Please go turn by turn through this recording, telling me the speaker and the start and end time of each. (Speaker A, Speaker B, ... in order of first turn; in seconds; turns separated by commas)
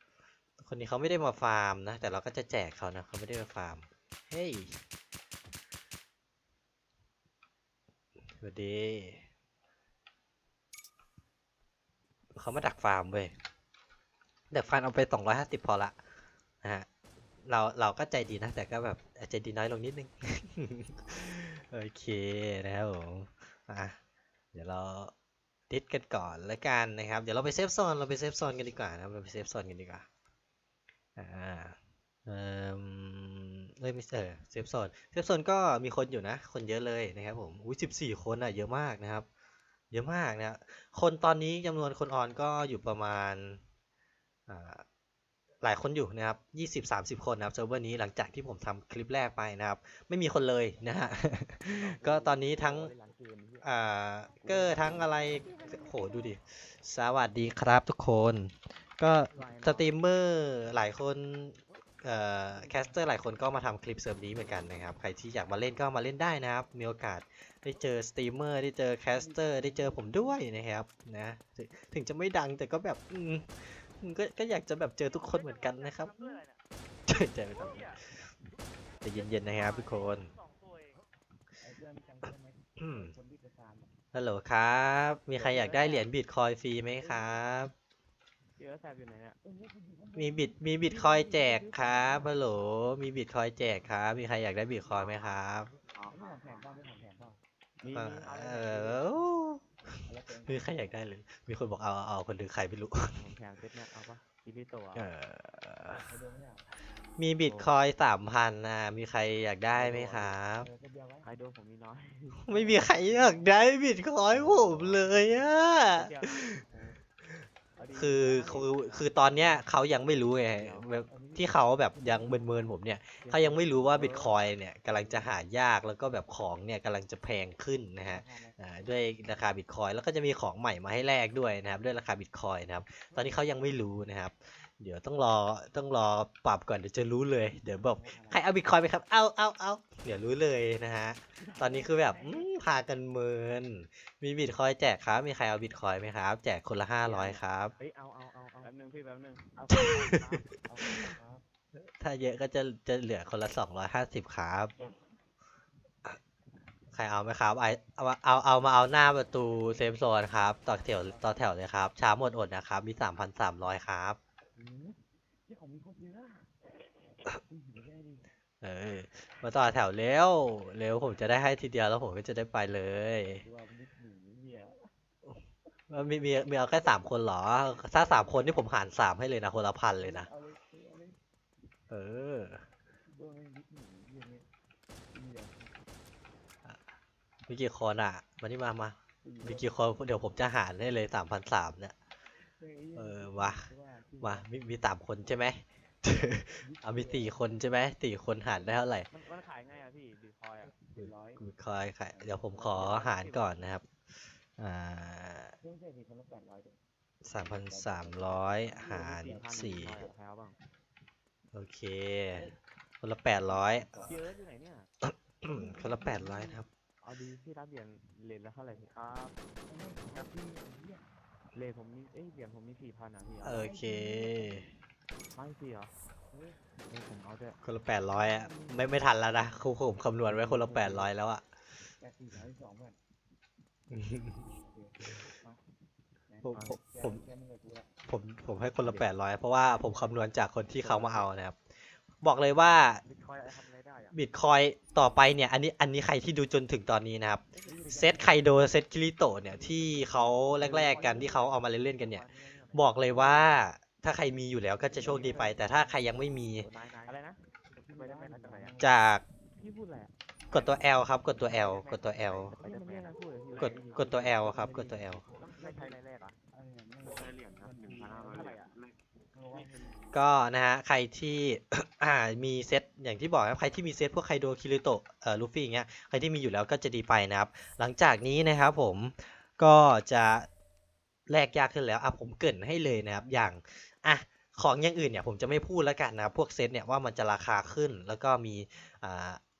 Speaker A: 0.6-4.8, Speaker A: 8.4-9.2, Speaker A: 12.3-13.3, Speaker A: 14.5-16.0, Speaker A: 17.4-24.0, Speaker A: 24.5-25.1, Speaker A: 25.7-30.1, Speaker A: 31.1-39.2, Speaker A: 39.9-43.6, Speaker A: 44.5-44.8, Speaker A: 45.6-52.9, Speaker B: 51.7-53.6, Speaker A: 53.6-76.4, Speaker B: 54.4-55.3, Speaker B: 59.3-60.0, Speaker C: 69.2-69.7, Speaker B: 75.0-76.6, Speaker A: 77.1-78.2, Speaker B: 77.4-78.0, Speaker A: 79.0-80.3, Speaker B: 79.0-81.0, Speaker C: 81.6-83.9, Speaker A: 82.8-83.1, Speaker A: 84.1-87.7, Speaker B: 85.3-86.1, Speaker B: 88.6-89.4, Speaker C: 89.4-90.6, Speaker A: 90.2-95.7, Speaker B: 90.9-92.3, Speaker B: 95.9-96.7, Speaker C: 96.1-97.4, Speaker B: 97.8-99.2, Speaker A: 97.9-99.6, Speaker C: 100.0-100.9, Speaker A: 100.4-103.2, Speaker B: 103.1-105.1, Speaker A: 104.9-106.0, Speaker C: 106.0-106.7, Speaker A: 107.2-110.7, Speaker B: 107.4-107.7, Speaker B: 109.7-110.3, Speaker C: 110.6-111.3, Speaker B: 111.2-113.5, Speaker A: 112.5-116.6, Speaker B: 114.3-115.0, Speaker B: 115.9-117.0, Speaker B: 117.8-119.5, Speaker A: 117.9-147.7, Speaker B: 120.5-120.9, Speaker C: 121.1-122.6, Speaker B: 123.2-124.3, Speaker C: 128.1-128.6, Speaker C: 137.8-138.4, Speaker C: 141.6-142.4, Speaker B: 147.0-150.4, Speaker A: 149.7-150.3, Speaker C: 150.6-151.4, Speaker A: 150.8-151.1, Speaker A: 151.8-154.7, Speaker A: 156.9-164.2, Speaker C: 164.6-166.5, Speaker C: 167.3-168.3, Speaker A: 168.6-173.4, Speaker C: 173.4-174.8, Speaker A: 175.9-180.3, Speaker C: 179.9-181.2, Speaker A: 181.9-182.6, Speaker C: 183.1-184.5, Speaker C: 185.1-185.6, Speaker A: 187.5-191.9, Speaker C: 189.2-189.7, Speaker C: 192.6-194.4, Speaker A: 192.9-199.1, Speaker C: 196.6-197.4, Speaker B: 199.1-200.7, Speaker C: 200.9-201.4, Speaker A: 200.9-203.8, Speaker B: 202.6-203.5, Speaker A: 204.6-205.6, Speaker C: 205.6-206.8, Speaker A: 207.2-210.1, Speaker C: 207.4-210.0, Speaker B: 208.8-210.6, Speaker A: 211.5-214.1, Speaker C: 213.4-214.1, Speaker B: 214.0-214.9, Speaker A: 215.0-216.7, Speaker C: 215.5-216.5, Speaker B: 217.0-219.4, Speaker C: 219.7-221.1, Speaker B: 221.5-223.6, Speaker A: 223.4-224.7, Speaker C: 223.5-224.6, Speaker B: 225.3-225.9, Speaker B: 226.8-227.6, Speaker A: 227.6-231.4, Speaker C: 228.2-228.9, Speaker C: 230.6-231.0, Speaker C: 232.0-233.0, Speaker A: 233.9-234.4, Speaker C: 234.6-235.6, Speaker C: 236.3-237.9, Speaker A: 236.4-237.2, Speaker A: 238.1-241.6, Speaker B: 238.8-239.1, Speaker B: 240.8-241.3, Speaker A: 242.2-243.0, Speaker B: 242.9-244.2, Speaker A: 244.1-256.7, Speaker C: 247.7-248.4, Speaker B: 247.7-248.2, Speaker C: 249.7-251.3, Speaker B: 250.4-253.6, Speaker C: 255.0-255.7, Speaker B: 255.0-255.5, Speaker B: 256.6-258.8, Speaker C: 257.7-258.9, Speaker A: 258.8-259.2, Speaker B: 259.6-260.1, Speaker A: 260.5-262.6, Speaker B: 261.4-264.5, Speaker C: 262.6-266.0, Speaker A: 263.6-265.2, Speaker B: 265.4-266.4, Speaker C: 266.5-268.6, Speaker B: 267.1-268.9, Speaker C: 269.3-269.9, Speaker B: 269.5-269.9, Speaker A: 270.1-280.5, Speaker A: 281.3-289.4